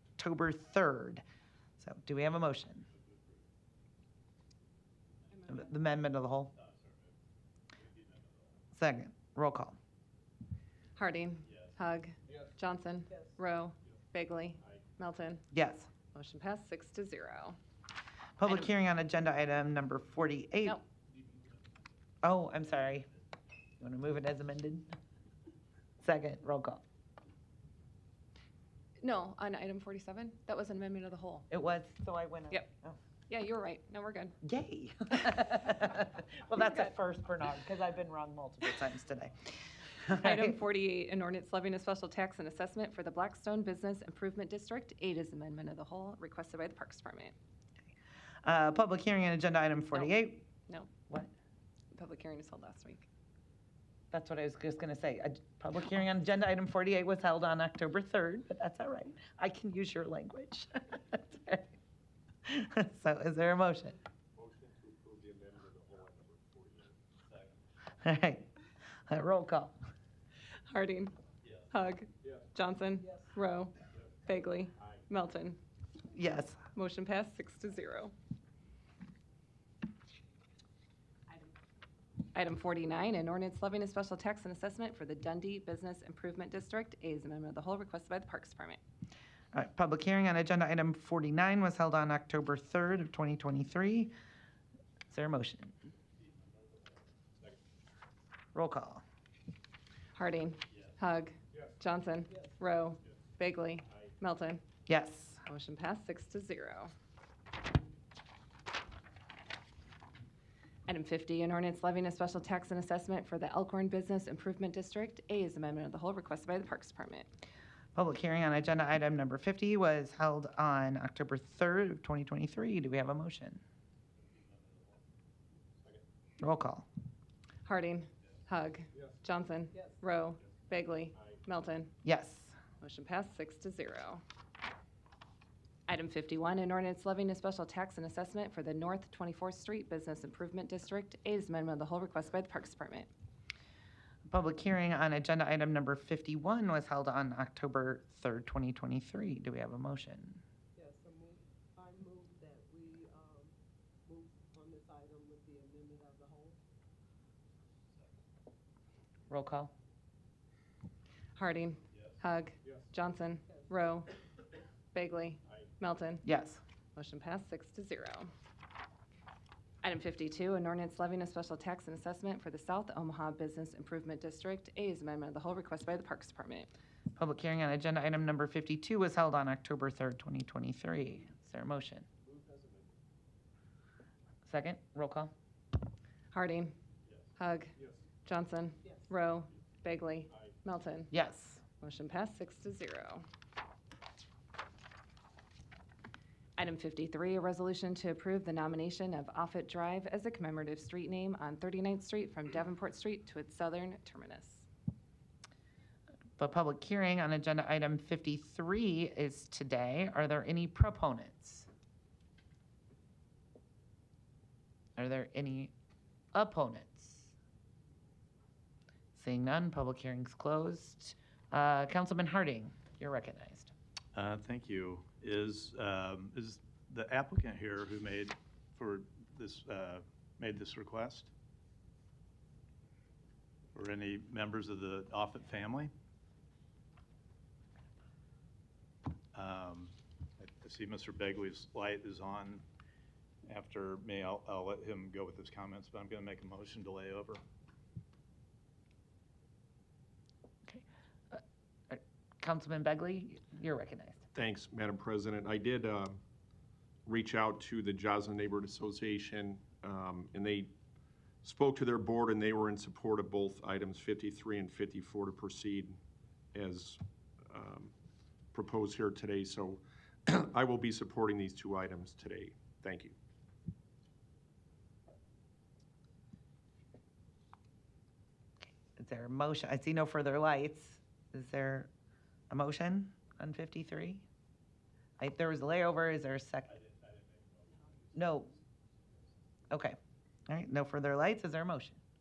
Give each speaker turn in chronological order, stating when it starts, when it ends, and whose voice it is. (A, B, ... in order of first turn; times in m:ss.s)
0:00.2-0:01.2 A
0:01.8-0:02.9 A
0:05.5-0:06.5 A
0:08.8-0:09.8 A
0:11.0-0:15.4 B
0:15.5-0:15.9 A
0:16.1-0:17.6 B
0:18.4-0:20.8 A
0:22.2-0:23.1 A
0:23.8-0:25.0 A
0:26.0-0:26.8 A
0:29.0-0:31.5 B
0:31.5-0:33.0 A
0:33.3-0:34.4 B
0:34.4-0:39.3 A
0:36.5-0:36.9 B
0:40.0-0:40.5 A
0:40.2-0:47.3 B
0:48.4-0:50.5 A
0:51.9-0:53.1 B
0:54.1-1:01.7 A
1:02.5-1:04.0 A
1:04.4-1:07.0 C
1:08.0-1:08.5 A
1:09.1-1:09.8 A
1:10.7-1:11.2 B
1:11.7-1:15.6 B
1:16.1-1:16.6 A
1:16.7-1:18.1 B
1:22.3-1:28.8 B
1:29.5-1:34.1 A
1:35.1-1:35.7 A
1:38.5-1:39.0 A
1:40.2-1:44.6 B
1:44.9-1:45.4 A
1:45.5-1:46.9 B
1:50.9-1:57.3 B
1:58.0-2:03.6 A
2:06.4-2:06.9 A
2:07.6-2:11.9 B
2:12.0-2:12.6 A
2:12.8-2:14.2 B
2:15.9-2:23.1 B
2:24.3-2:30.4 A
2:30.8-2:33.6 D
2:34.1-2:36.6 D
2:39.3-2:39.7 A
2:41.4-2:44.1 B
2:44.9-2:46.2 B
2:46.2-2:46.6 A
2:47.0-2:48.3 B
2:49.8-2:56.7 B
2:57.2-3:02.1 A
3:02.2-3:03.0 C
3:04.4-3:05.3 A
3:06.3-3:06.7 B
3:07.4-3:11.1 B
3:11.1-3:11.6 A
3:11.7-3:13.2 B
3:16.6-3:24.7 B
3:26.4-3:31.7 A
3:35.0-3:35.7 A
3:36.3-3:37.3 A
3:39.2-3:43.7 A
3:44.2-3:51.3 E
3:53.8-3:55.9 E
3:59.3-4:02.6 E
4:03.4-4:07.4 E
4:10.7-4:14.3 A
4:14.3-4:16.2 C
4:17.1-4:20.7 C
4:21.4-4:26.0 C
4:26.5-4:27.9 C
4:28.5-4:33.2 C
4:39.0-4:41.9 A
4:42.5-4:44.3 A
4:45.2-4:46.8 A
4:48.1-4:48.5 A
4:49.7-4:52.0 A